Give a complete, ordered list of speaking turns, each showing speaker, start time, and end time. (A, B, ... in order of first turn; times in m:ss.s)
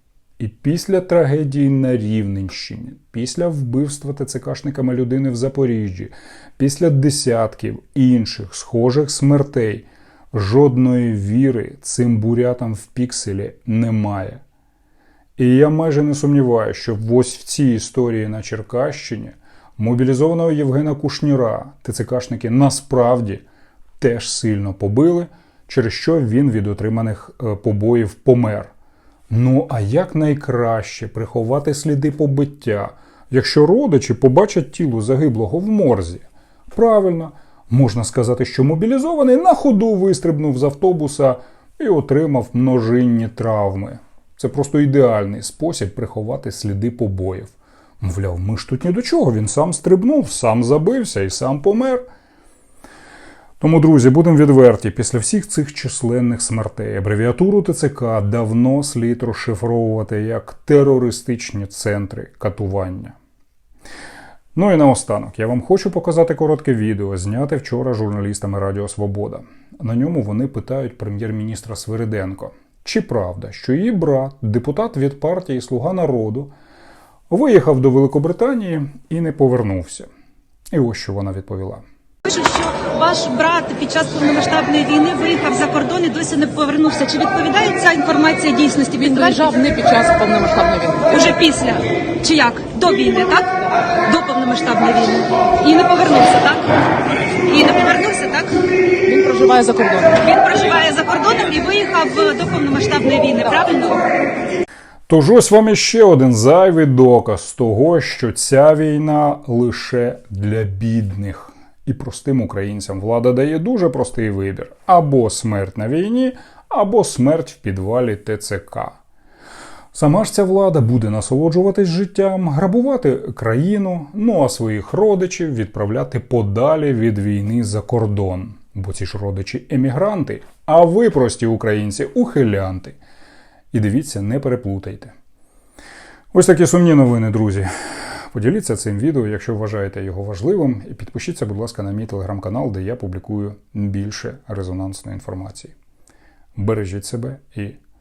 0:00.4-0:14.4 A
0:15.4-0:23.4 A
0:24.0-0:28.7 A
0:29.3-0:52.0 A
0:53.6-1:03.1 A
1:04.5-1:16.5 A
1:17.3-1:20.1 A
1:20.7-1:21.8 A
1:22.2-1:29.0 B
1:28.9-1:31.3 C
1:31.2-1:36.8 B
1:37.4-1:38.6 B
1:39.0-1:40.4 C
1:40.3-1:44.0 B
1:45.1-1:59.0 A
1:59.9-2:13.0 A
2:13.7-2:15.1 A
2:16.3-2:25.7 A
2:26.5-2:27.8 A